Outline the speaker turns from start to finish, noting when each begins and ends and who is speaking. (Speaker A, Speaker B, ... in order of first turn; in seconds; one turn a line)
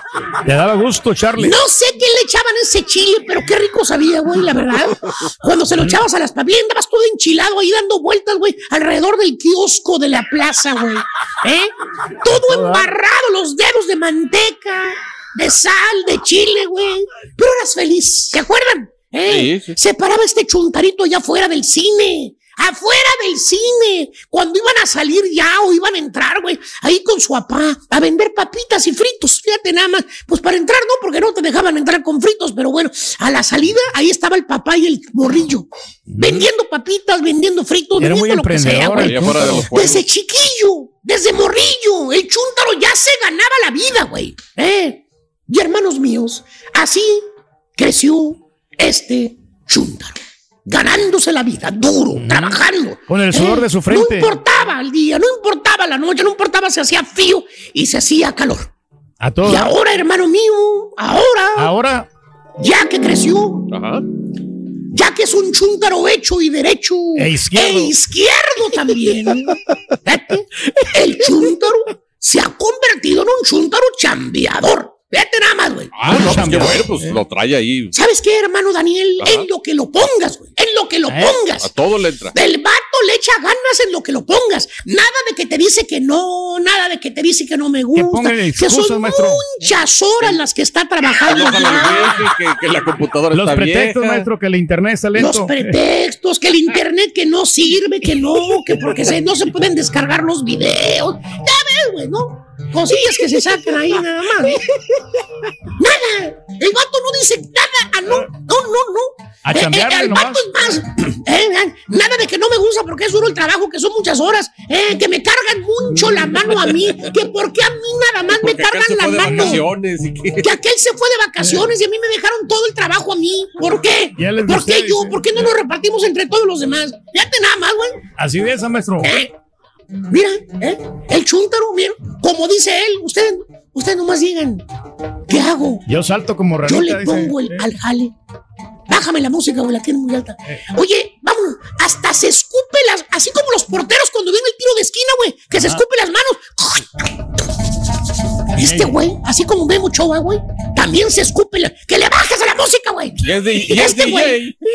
Speaker A: 0.5-1.6
Speaker B: 1.4-47.2
Speaker A: 12.3-12.9
Speaker C: 19.2-19.8
Speaker A: 36.1-36.5
Speaker A: 38.0-39.7
Speaker C: 39.0-40.1
Speaker B: 47.8-58.7
Speaker A: 52.2-54.3
Speaker A: 59.2-59.7
Speaker B: 59.4-61.7
Speaker A: 61.6-62.1
Speaker B: 62.6-63.7
Speaker C: 63.7-64.0
Speaker B: 64.9-69.5
Speaker A: 67.2-67.9
Speaker B: 70.1-75.9
Speaker C: 75.9-77.9
Speaker A: 76.0-77.1
Speaker B: 77.9-81.7
Speaker C: 79.2-79.5
Speaker A: 81.1-81.4
Speaker C: 81.6-82.4
Speaker B: 82.3-92.2
Speaker A: 87.9-89.5
Speaker C: 91.2-94.3
Speaker A: 93.3-95.8
Speaker B: 95.2-104.7
Speaker B: 105.8-119.7
Speaker A: 109.5-110.5
Speaker C: 118.3-120.6
Speaker A: 119.2-119.6
Speaker B: 120.4-128.0
Speaker A: 124.2-125.2
Speaker A: 128.2-129.1
Speaker B: 129.0-129.3
Speaker B: 130.1-134.6
Speaker B: 135.3-135.8
Speaker A: 135.9-137.7
Speaker B: 136.6-138.1
Speaker B: 138.9-146.9
Speaker A: 145.5-145.8
Speaker B: 148.6-154.5
Speaker A: 148.6-149.0
Speaker C: 153.2-154.6